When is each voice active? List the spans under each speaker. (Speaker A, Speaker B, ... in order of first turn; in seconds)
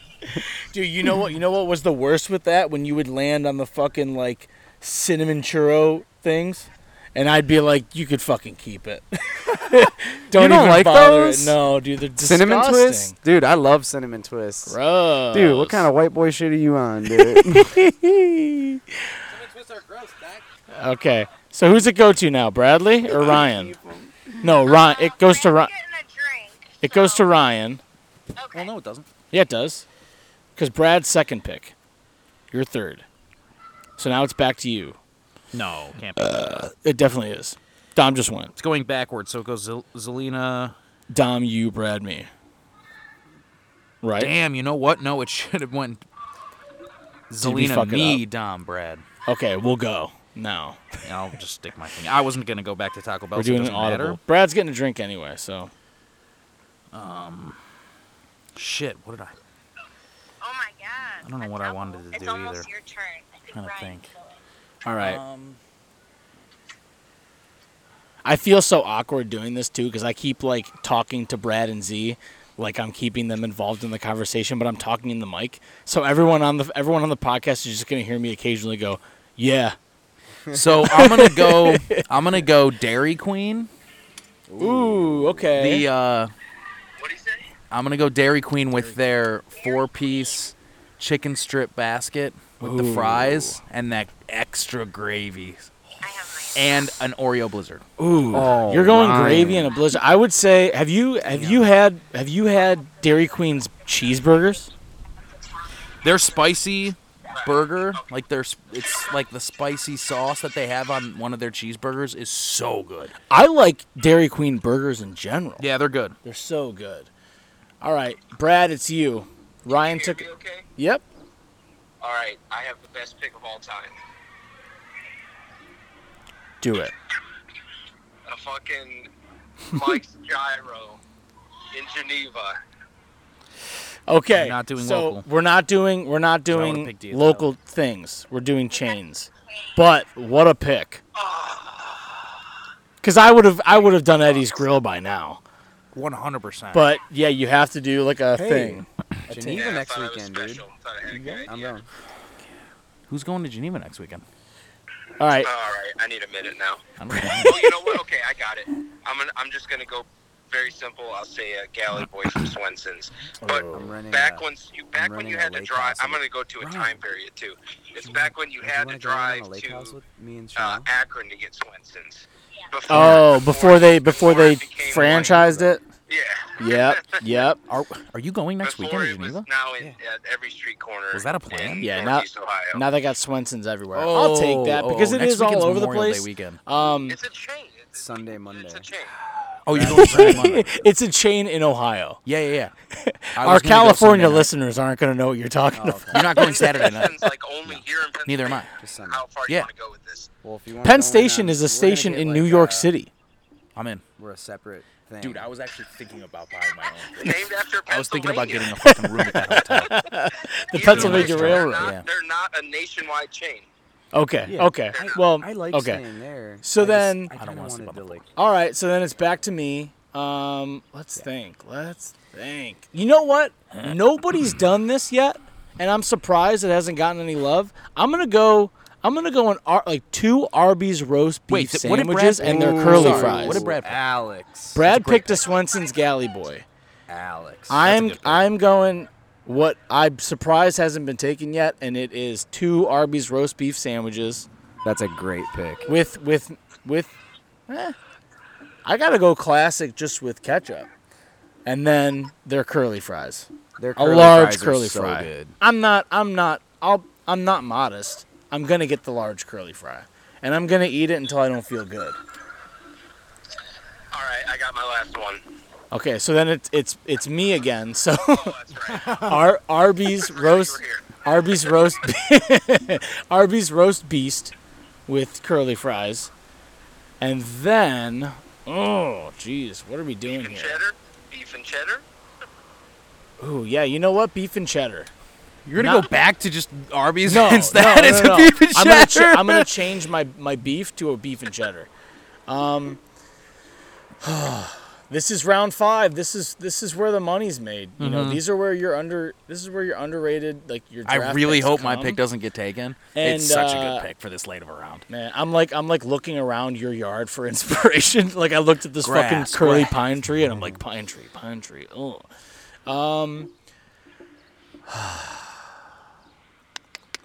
Speaker A: 0.3-13.2, 14.7-15.9, 17.1-19.2, 20.7-23.7, 24.4-25.7, 26.8-27.8, 29.3-29.8, 30.6-31.7, 32.5-33.0, 34.0-35.0, 36.2-38.5, 41.1-42.3, 44.0-44.3, 47.4-48.2, 49.2-51.0, 53.3-55.7, 64.8-65.2, 68.2-79.8, 80.8-82.1, 84.6-85.9, 92.6-93.5, 98.0-104.7, 113.3-115.6, 116.2-117.1, 117.8-121.0, 126.6-126.9, 134.1-141.0, 143.0-145.4, 146.7-148.8, 151.2-151.4, 155.2-155.5, 157.1-157.6, 163.4-163.9, 172.9-175.8, 176.6-177.6, 181.8-187.2, 189.9-192.2, 192.9-197.1, 200.8-203.1, 208.8-211.9, 214.1-216.0, 216.6-217.3, 218.3-233.7, 234.7-236.6, 237.7-244.4, 245.8-247.2, 247.7-247.9, 248.8-250.9, 251.6-262.2, 265.9-268.5, 269.2-274.5, 275.1-276.3, 277.2-280.8, 283.4-285.1, 285.8-286.1, 287.3-291.9, 292.5-293.0, 294.2-302.2, 303.1-304.1, 305.1-312.3, 312.9-313.5, 314.9-315.5
Speaker B: 10.3-11.6, 12.2-14.8, 15.3-17.7, 84.5-85.5, 92.6-93.4, 98.3-99.7, 148.3-151.8, 163.7-167.0, 168.0-170.8, 175.1-175.8, 187.9-188.9, 189.7-190.6, 195.7-196.3, 198.8-199.2, 200.4-202.9, 204.2-205.4, 210.9-211.6, 214.4-218.2, 232.4-235.3, 237.1-237.9, 244.8-245.9, 253.8-255.5
Speaker C: 19.3-20.4, 23.1-24.3, 28.5-29.1, 35.5-36.7, 38.6-40.7, 44.2-46.0, 47.3-49.0, 51.0-54.2, 56.9-57.6, 58.5-59.4, 61.2-62.7, 63.5-64.1, 65.0-65.6, 80.5-83.7, 85.5-86.3, 87.7-95.7, 96.5-97.8, 106.0-113.1, 115.6-116.2, 134.3-135.2, 136.5-137.5, 145.9-146.9, 153.1-154.2, 157.0-157.7, 175.0-175.3, 177.7-179.4, 181.1-181.9, 183.9-186.6, 189.6-190.8, 192.2-192.7, 193.4-194.5, 196.1-198.7, 203.8-204.0, 205.2-210.0, 210.8-212.1, 217.3-218.2, 231.5-234.0, 237.8-238.4, 285.6-289.7, 298.0-298.4, 301.1-305.0, 309.0-310.0
Speaker D: 24.5-27.3, 28.4-28.7, 60.4-64.4, 89.6-90.0, 96.0-97.0
Speaker E: 87.0-87.5, 107.3-108.0, 119.7-120.7, 122.0-123.9, 128.3-129.1, 129.7-131.0, 131.7-132.6, 141.1-142.1, 149.3-151.7, 155.4-156.8, 157.4-169.9, 170.6-175.4, 176.1-177.0, 178.6-182.8, 187.1-189.1, 196.2-200.3, 207.1-208.8, 210.7-213.7, 214.9-215.2, 264.1-265.4, 268.2-269.3, 270.1-271.2, 280.2-282.1